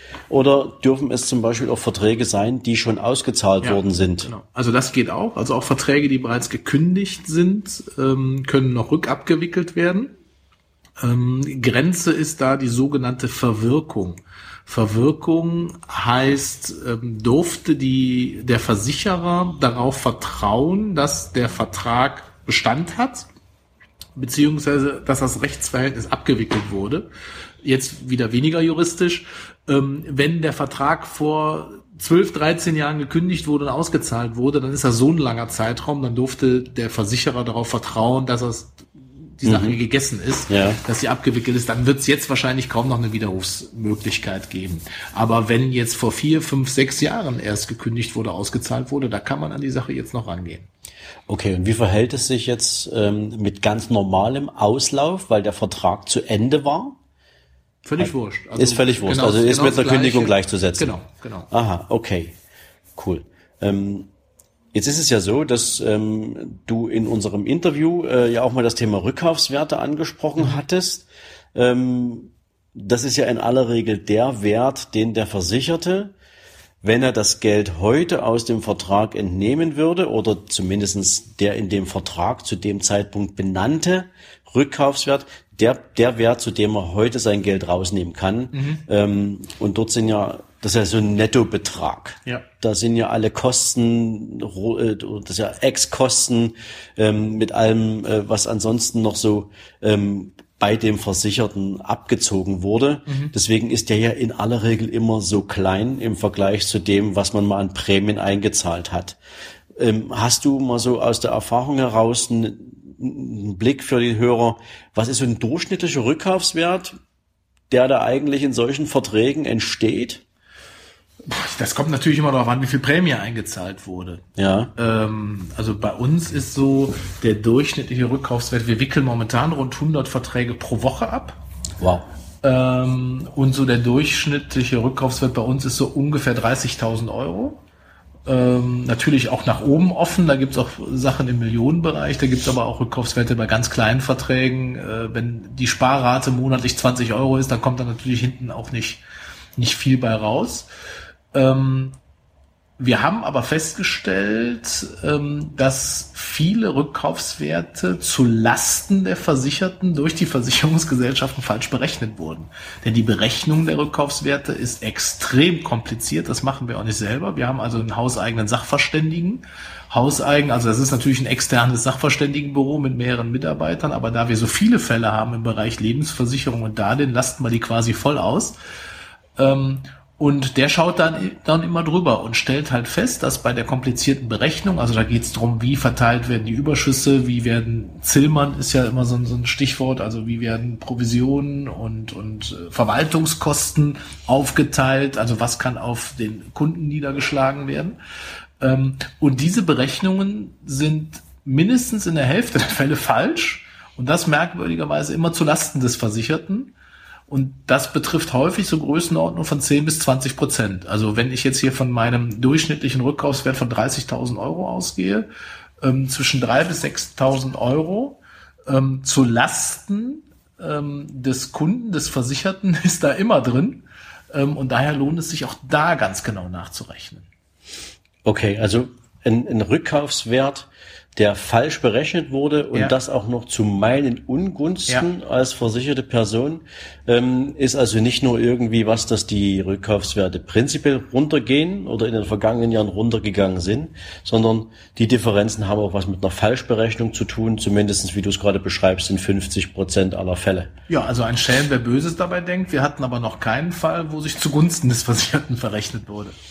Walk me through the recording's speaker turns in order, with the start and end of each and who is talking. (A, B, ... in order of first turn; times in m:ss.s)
0:00.3-0:04.3 A
0:03.6-0:10.1 B
0:11.0-0:23.3 B
0:24.2-0:27.1 B
0:27.6-0:50.7 B
0:39.4-0:39.8 A
0:40.5-0:40.8 A
0:51.3-0:57.0 A
0:57.8-1:01.5 B
0:58.0-1:01.0 A
1:01.5-1:02.3 A
1:03.0-1:04.1 A
1:04.7-1:16.1 A
1:16.8-1:49.2 A
1:28.5-1:28.8 B
1:43.1-1:43.3 B
1:49.8-1:57.0 A
1:57.7-2:00.2 A
2:01.3-2:04.2 B
2:04.4-2:04.7 A
2:04.8-2:11.4 B
2:11.8-2:12.0 A
2:12.4-2:17.6 B
2:18.3-2:29.0 B
2:29.6-2:30.7 B
2:31.3-2:32.0 B
2:32.8-2:58.6 B
2:59.4-3:18.0 B
3:18.6-3:26.7 B
3:27.3-3:35.3 B
3:35.8-3:47.3 B
3:48.2-4:10.7 A
4:10.9-4:16.4 B